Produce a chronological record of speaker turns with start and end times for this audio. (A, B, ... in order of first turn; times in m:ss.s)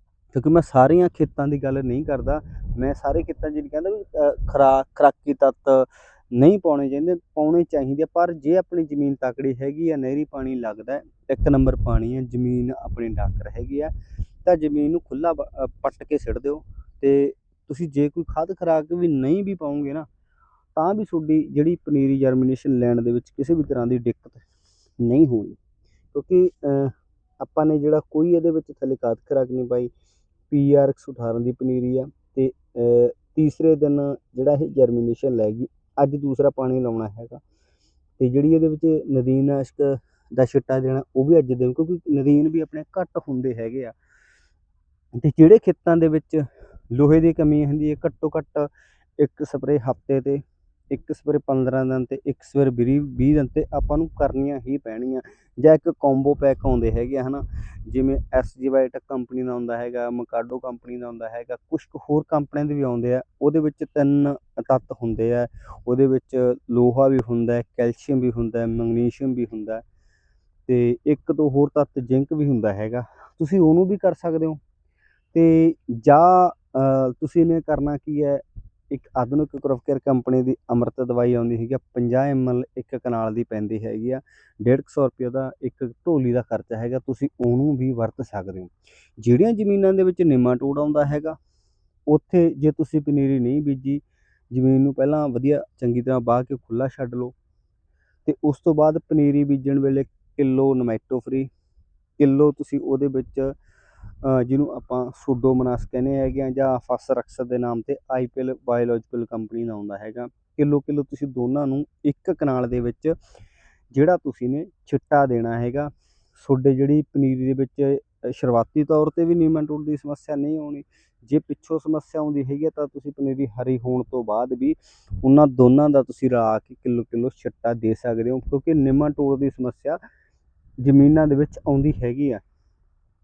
0:00.3-0:13.9 A
0:14.4-0:20.1 A
0:20.8-0:24.4 A
0:25.0-0:25.6 A
0:26.1-0:29.9 A
0:30.5-0:37.4 A
0:38.2-0:44.0 A
0:45.2-1:09.8 A
1:10.7-1:14.6 A
1:15.3-1:31.4 A
1:32.1-1:37.3 A
1:38.2-1:41.5 A
1:42.2-1:43.6 A
1:44.2-1:53.2 A
1:53.9-2:10.0 A
2:10.8-2:12.4 A